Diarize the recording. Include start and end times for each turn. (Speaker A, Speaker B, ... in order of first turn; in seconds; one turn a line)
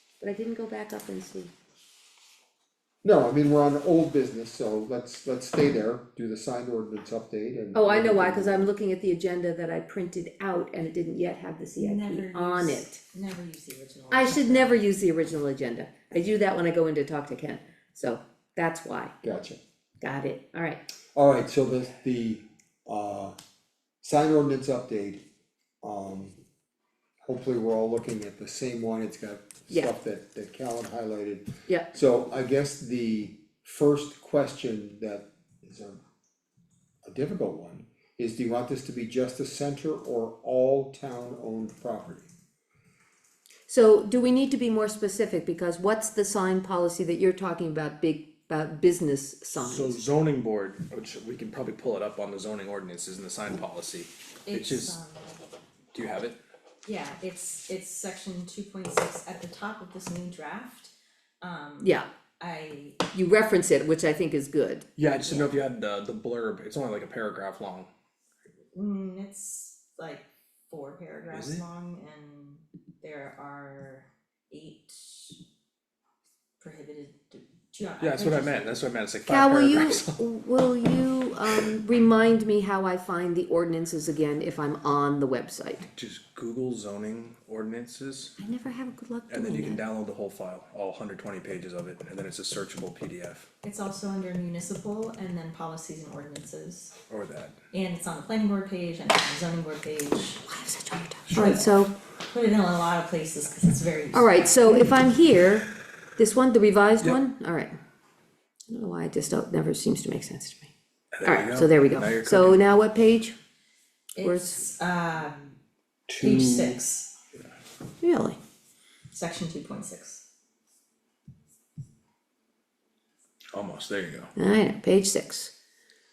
Speaker A: 0.2-1.5
Speaker B: 3.0-8.7
Speaker A: 7.7-13.0
Speaker C: 11.8-14.8
Speaker A: 14.1-19.1
Speaker B: 19.2-19.6
Speaker A: 20.0-20.8
Speaker B: 21.1-23.4
Speaker B: 24.0-25.2
Speaker B: 25.8-26.4
Speaker B: 27.2-36.0
Speaker B: 37.0-42.3
Speaker A: 43.7-50.0
Speaker D: 49.5-55.0
Speaker C: 54.5-55.4
Speaker D: 55.9-56.4
Speaker C: 56.9-63.1
Speaker A: 61.8-62.1
Speaker A: 63.1-64.9
Speaker D: 65.0-67.9
Speaker C: 65.2-65.5
Speaker C: 68.7-75.4
Speaker D: 71.3-71.6
Speaker C: 76.6-78.8
Speaker D: 78.0-80.2
Speaker A: 79.3-85.8
Speaker D: 85.9-88.4
Speaker A: 88.4-89.8
Speaker D: 89.3-93.5
Speaker C: 93.6-97.0
Speaker D: 97.1-97.6
Speaker C: 97.7-100.4
Speaker A: 100.5-102.0
Speaker C: 101.3-104.9
Speaker A: 104.1-105.7
Speaker A: 106.2-107.7
Speaker A: 108.7-110.7
Speaker D: 111.1-112.6
Speaker A: 111.2-113.3
Speaker C: 114.2-115.6
Speaker A: 114.2-114.6
Speaker B: 116.1-116.7
Speaker C: 116.2-117.1
Speaker A: 118.0-118.4
Speaker C: 119.1-120.2
Speaker D: 123.5-124.3
Speaker A: 124.4-125.5